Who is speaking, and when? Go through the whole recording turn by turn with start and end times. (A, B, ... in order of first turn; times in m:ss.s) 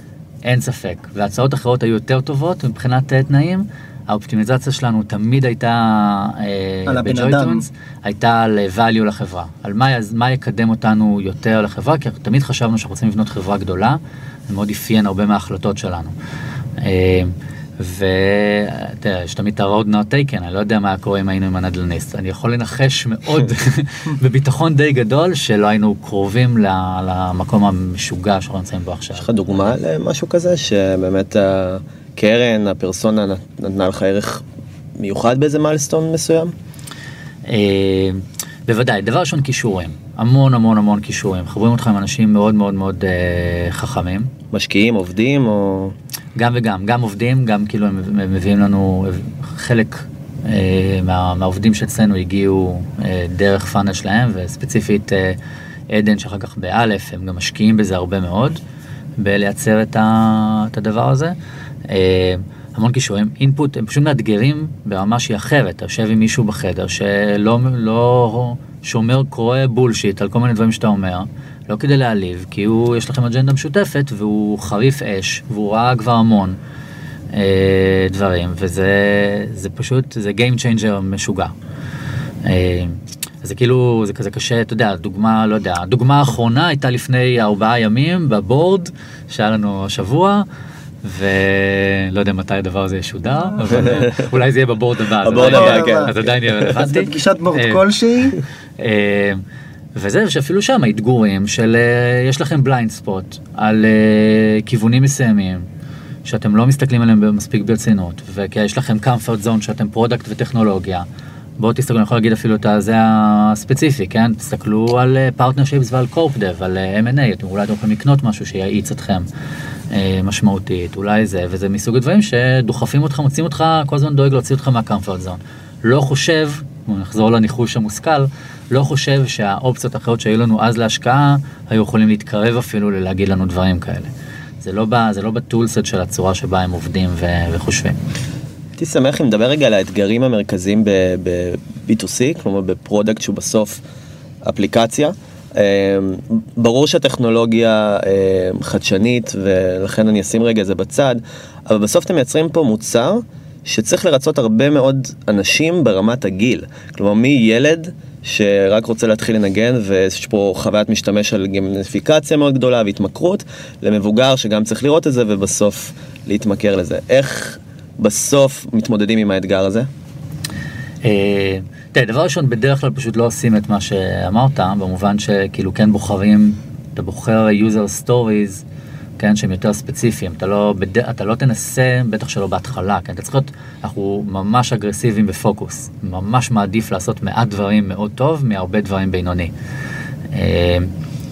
0:00.4-0:16.1 A
0:06.9-0:07.6 B
0:16.8-0:29.8 A
0:29.2-0:34.4 C
0:35.0-0:36.5 C
0:37.4-0:44.3 A
0:44.5-0:45.9 C
0:46.4-0:55.4 A
0:55.9-0:58.6 A
0:59.2-1:01.4 A
1:01.9-1:16.6 A
1:17.3-1:21.5 A
1:22.4-1:30.4 A
1:31.0-1:37.8 A
1:33.8-1:34.2 C
1:35.2-1:36.7 C
1:35.4-1:38.4 B
1:38.8-1:39.4 A
1:39.9-1:45.6 A
1:46.2-1:51.0 A
1:51.6-1:59.2 A
1:59.9-2:14.1 A
2:14.6-2:18.0 A
2:18.8-2:23.8 C
2:24.4-2:49.9 C
2:51.0-2:58.6 A
2:59.2-3:09.5 A
3:10.3-3:10.9 A